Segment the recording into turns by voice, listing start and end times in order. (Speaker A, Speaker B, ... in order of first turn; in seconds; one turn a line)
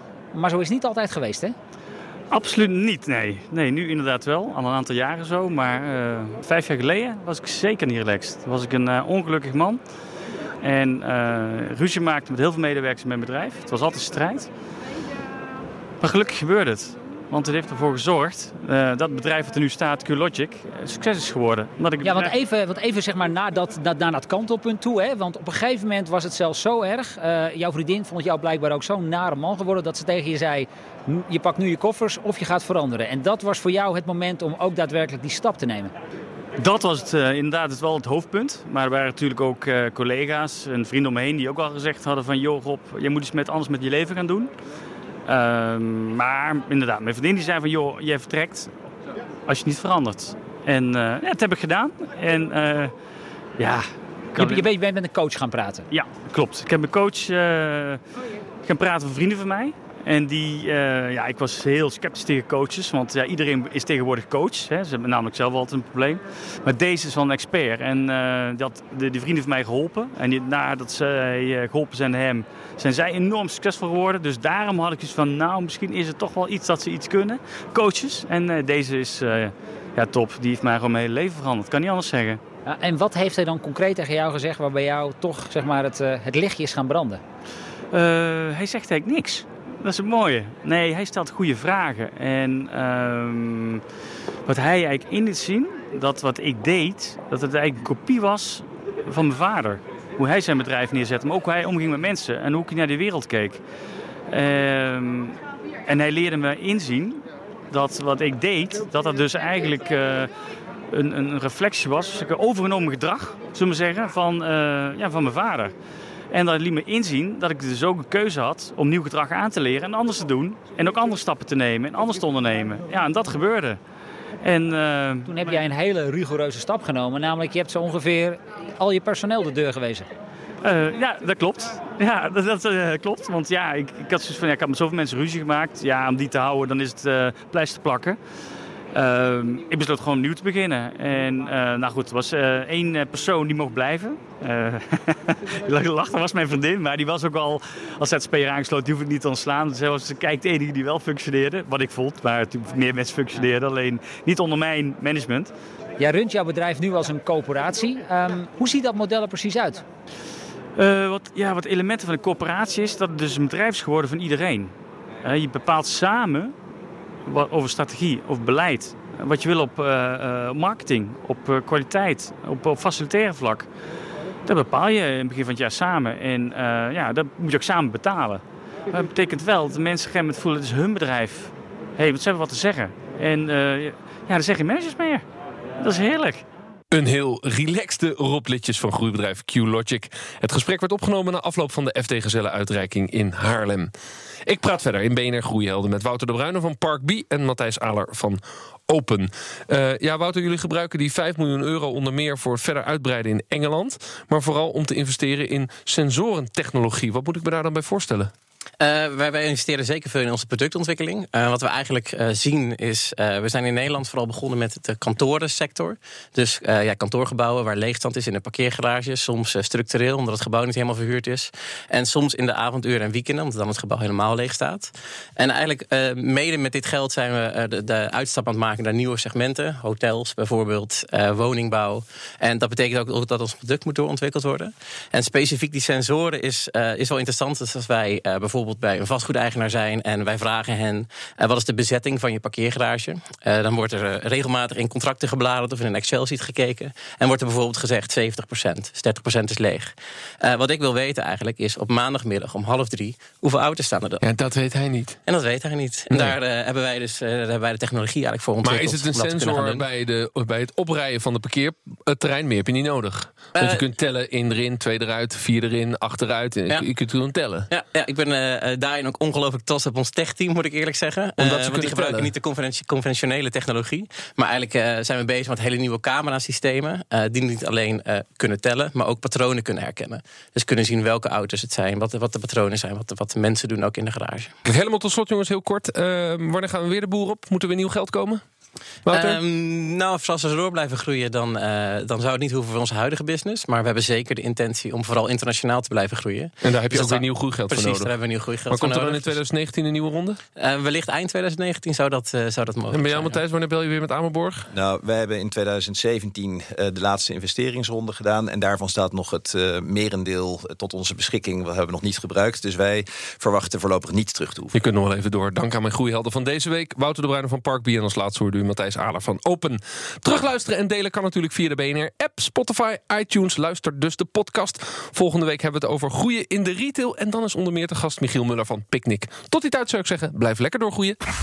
Speaker A: 0.3-1.5
Speaker B: 2.3-9.8
Speaker B: 10.6-14.5
Speaker B: 16.0-22.3
Speaker A: 22.0-35.9
Speaker B: 36.6-44.5
Speaker B: 45.3-48.7
Speaker B: 49.5-52.9
Speaker B: 53.6-54.7
Speaker A: 54.4-55.9
Speaker B: 55.9-58.0
Speaker B: 58.6-82.4
Speaker A: 82.7-87.2
Speaker B: 87.9-93.8
Speaker B: 94.5-103.6
Speaker B: 104.3-110.3
Speaker B: 110.9-115.7
Speaker B: 116.3-123.8
Speaker B: 124.4-125.6
Speaker A: 125.3-130.1
Speaker B: 130.6-138.2
Speaker B: 138.9-155.5
Speaker A: 156.0-159.8
Speaker B: 160.8-166.5
Speaker B: 167.2-173.7
Speaker B: 174.4-185.2
Speaker B: 185.8-186.4
Speaker C: 186.9-193.9
Speaker C: 194.4-208.3
Speaker D: 208.8-254.2
Speaker C: 254.2-255.2
Speaker D: 255.3-259.8
Speaker C: 258.6-267.7
Speaker D: 263.5-263.8
Speaker D: 267.7-284.5
Speaker C: 271.4-272.3
Speaker C: 284.6-288.4
Speaker C: 289.0-289.4
Speaker D: 289.1-299.4
Speaker C: 296.6-298.1
Speaker C: 298.7-300.4
Speaker D: 300.6-303.4
Speaker C: 302.9-304.7
Speaker E: 304.7-314.7
Speaker C: 314.7-331.2